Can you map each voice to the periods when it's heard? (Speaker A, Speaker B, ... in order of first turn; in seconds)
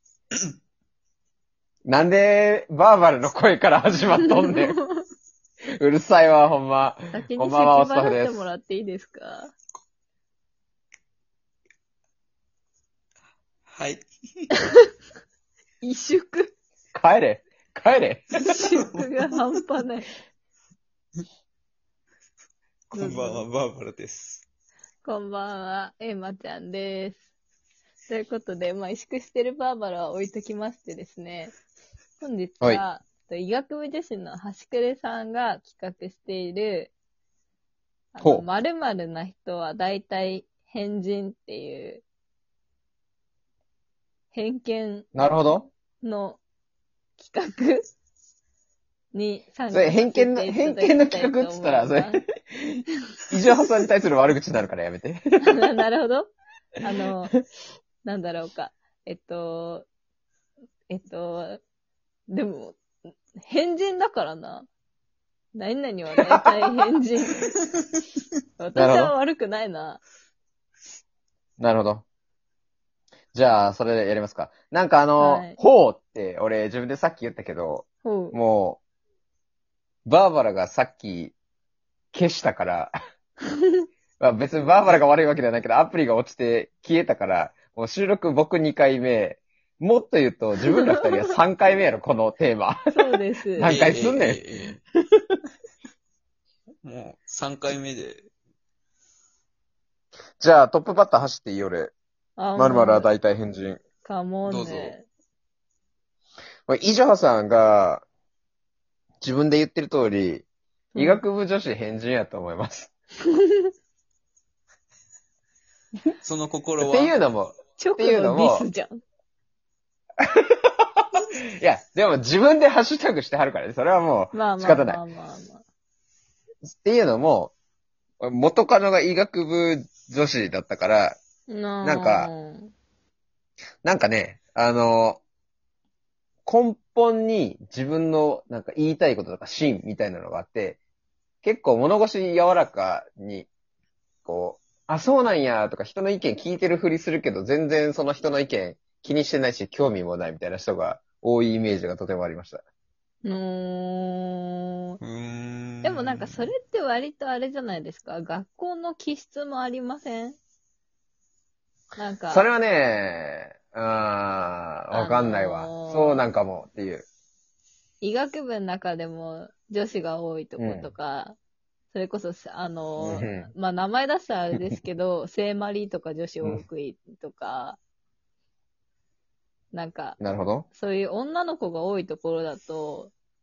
Speaker A: 1.9-4.8, 5.8-8.4, 16.9-18.3, 38.2-38.5, 45.1-45.7, 49.7-55.2, 68.8-69.1, 71.6-72.0, 73.3-78.8, 80.0-81.3, 82.1-83.0, 84.2-92.8, 93.5-94.4, 100.4-101.9, 102.5-103.8, 106.7-108.0, 109.2-110.4, 111.0-112.9, 116.8-118.7, 120.2-121.0, 121.6-125.0, 126.8-127.5, 128.2-131.2, 131.8-132.3, 133.8-135.2, 136.4-140.8, 141.4-143.5, 144.2-152.6, 162.3-167.0, 170.6-170.9, 173.0-173.5, 180.2-180.7
Speaker B: 4.2-5.0, 7.1-9.5, 15.8-16.5, 18.4-20.1, 22.9-23.4, 25.0-27.2, 28.1-31.5, 32.2-36.9, 38.1-42.0, 44.3-45.3, 46.0-46.4, 47.2-47.9, 49.1-52.2, 55.4-57.3, 58.0-59.9, 60.9-61.6, 62.3-64.7, 65.5-67.5, 68.6-70.0, 75.2-75.6, 78.0-78.3, 92.9-93.7, 102.4-103.1, 104.0-105.0, 110.9-111.2, 113.3-113.7, 117.8-119.0, 124.3-125.6, 131.5-132.7, 153.2-155.0, 155.8-160.4, 161.9-162.5, 164.9-166.2, 168.0-171.4, 171.9-177.8, 179.7-180.2, 180.7-183.1
Speaker C: 13.7-14.5, 18.5-19.1, 22.9-24.4, 93.6-94.8, 96.8-98.3, 104.5-104.9, 116.2-117.2, 155.0-156.5